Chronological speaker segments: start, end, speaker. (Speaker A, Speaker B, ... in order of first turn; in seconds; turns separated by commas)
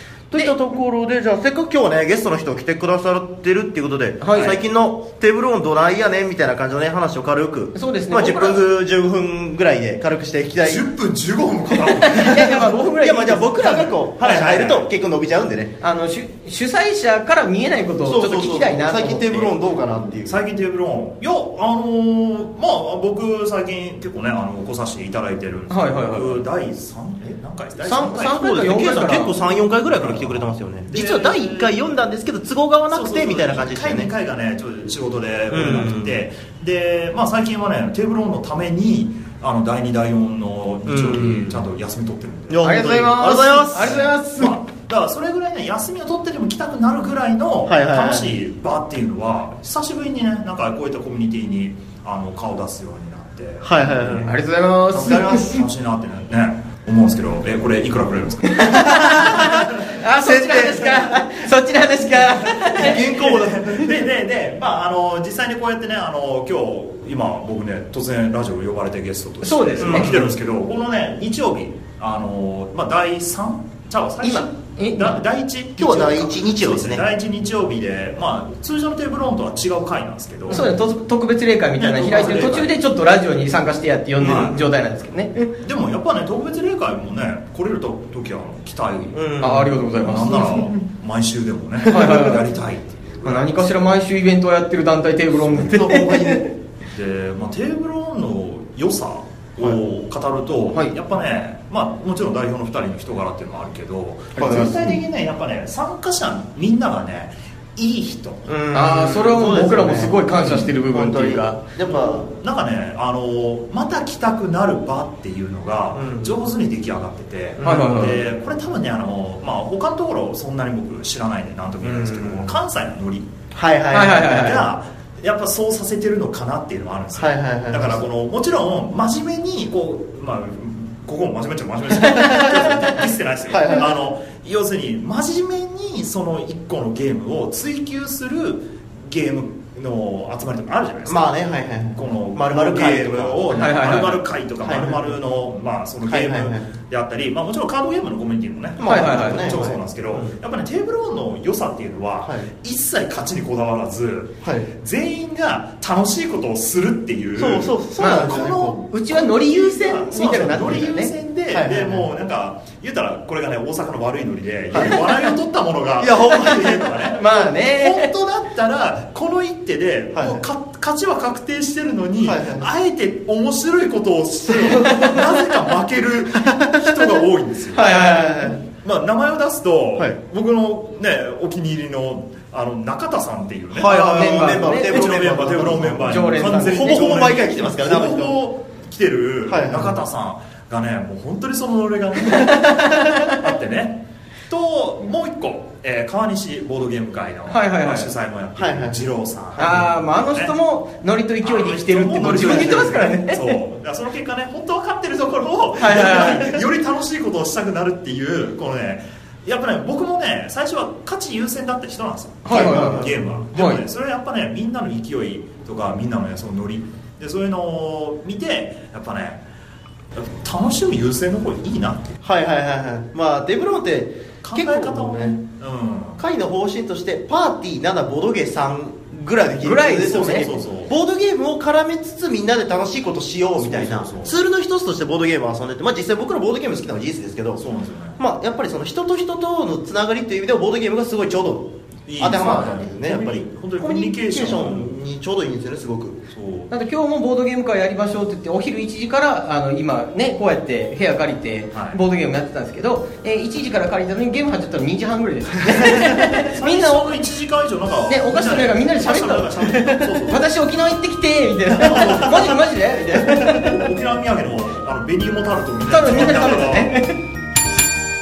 Speaker A: 0.3-10.9, Speaker B: 4.2-4.6, Speaker B: 7.8-8.7, Speaker C: 10.6-12.9, Speaker B: 11.8-13.7, Speaker A: 13.0-15.7, Speaker C: 13.6-14.9, Speaker B: 15.8-19.6, Speaker A: 18.1-20.4, Speaker C: 20.2-29.4, Speaker B: 25.7-26.5, Speaker B: 27.8-29.4, Speaker A: 28.0-34.1, Speaker C: 29.9-31.8, Speaker C: 32.9-42.6, Speaker A: 35.5-36.2, Speaker A: 40.9-41.6, Speaker A: 42.5-44.0, Speaker B: 42.6-44.6, Speaker C: 43.8-54.3, Speaker A: 47.7-48.4, Speaker A: 53.6-54.4, Speaker B: 54.2-55.6, Speaker A: 54.9-55.6, Speaker C: 55.0-58.9, Speaker B: 58.5-63.3, Speaker A: 58.9-59.5, Speaker A: 60.2-61.2, Speaker A: 62.7-64.0, Speaker C: 62.7-80.8, Speaker B: 69.4-70.1, Speaker A: 69.8-70.3, Speaker B: 74.2-75.2, Speaker A: 75.8-77.0, Speaker B: 80.5-85.5, Speaker C: 81.8-82.7, Speaker C: 84.2-84.7, Speaker A: 84.2-84.5, Speaker C: 85.6-89.2, Speaker A: 89.1-89.8, Speaker B: 89.4-90.7, Speaker C: 89.9-94.0, Speaker B: 91.9-92.5, Speaker B: 93.2-96.5, Speaker C: 95.4-108.5, Speaker B: 104.4-104.7, Speaker A: 104.4-104.9, Speaker A: 108.5-112.3, Speaker B: 108.7-111.6, Speaker C: 110.4-110.7, Speaker C: 111.8-123.3, Speaker A: 115.9-116.4, Speaker A: 117.6-118.0, Speaker B: 117.6-118.2, Speaker A: 121.8-122.6, Speaker A: 123.5-124.6, Speaker B: 123.9-124.7, Speaker C: 124.1-141.4, Speaker A: 127.2-128.0, Speaker A: 131.9-132.9, Speaker A: 133.5-134.0, Speaker A: 141.1-144.0, Speaker C: 141.9-177.9, Speaker B: 143.5-144.2, Speaker A: 144.6-145.2, Speaker A: 146.1-146.7, Speaker A: 148.8-150.4, Speaker B: 148.8-149.6, Speaker A: 152.2-152.5, Speaker A: 154.4-154.7, Speaker A: 157.4-158.8, Speaker B: 158.0-161.1, Speaker A: 161.5-162.1, Speaker A: 164.7-165.3, Speaker A: 166.0-167.0, Speaker B: 167.1-168.1, Speaker A: 170.1-170.4, Speaker A: 172.2-172.7, Speaker A: 174.5-175.3, Speaker B: 174.9-175.2, Speaker A: 176.3-177.1, Speaker B: 177.7-178.6, Speaker A: 177.8-178.6, Speaker C: 178.8-200.6, Speaker A: 183.7-188.4, Speaker B: 183.9-185.1, Speaker B: 186.0-187.0, Speaker A: 189.5-190.0, Speaker B: 192.3-193.4, Speaker B: 197.5-198.1, Speaker A: 198.6-199.8, Speaker B: 199.6-203.6, Speaker C: 201.4-219.4, Speaker A: 202.3-202.9, Speaker B: 205.8-206.6, Speaker B: 212.4-213.8, Speaker A: 212.5-213.2, Speaker C: 220.2-222.2, Speaker A: 222.2-225.4, Speaker C: 224.4-226.2, Speaker A: 226.2-237.6, Speaker B: 229.6-230.5, Speaker C: 230.0-230.9, Speaker C: 233.5-234.4, Speaker C: 237.6-238.2, Speaker A: 238.2-246.2, Speaker C: 242.1-245.0, Speaker C: 246.3-246.7, Speaker B: 246.7-257.2, Speaker C: 251.7-252.0, Speaker C: 255.7-260.5, Speaker B: 258.1-263.8, Speaker C: 261.7-266.9, Speaker A: 263.0-263.6, Speaker B: 265.9-267.2, Speaker A: 266.1-266.5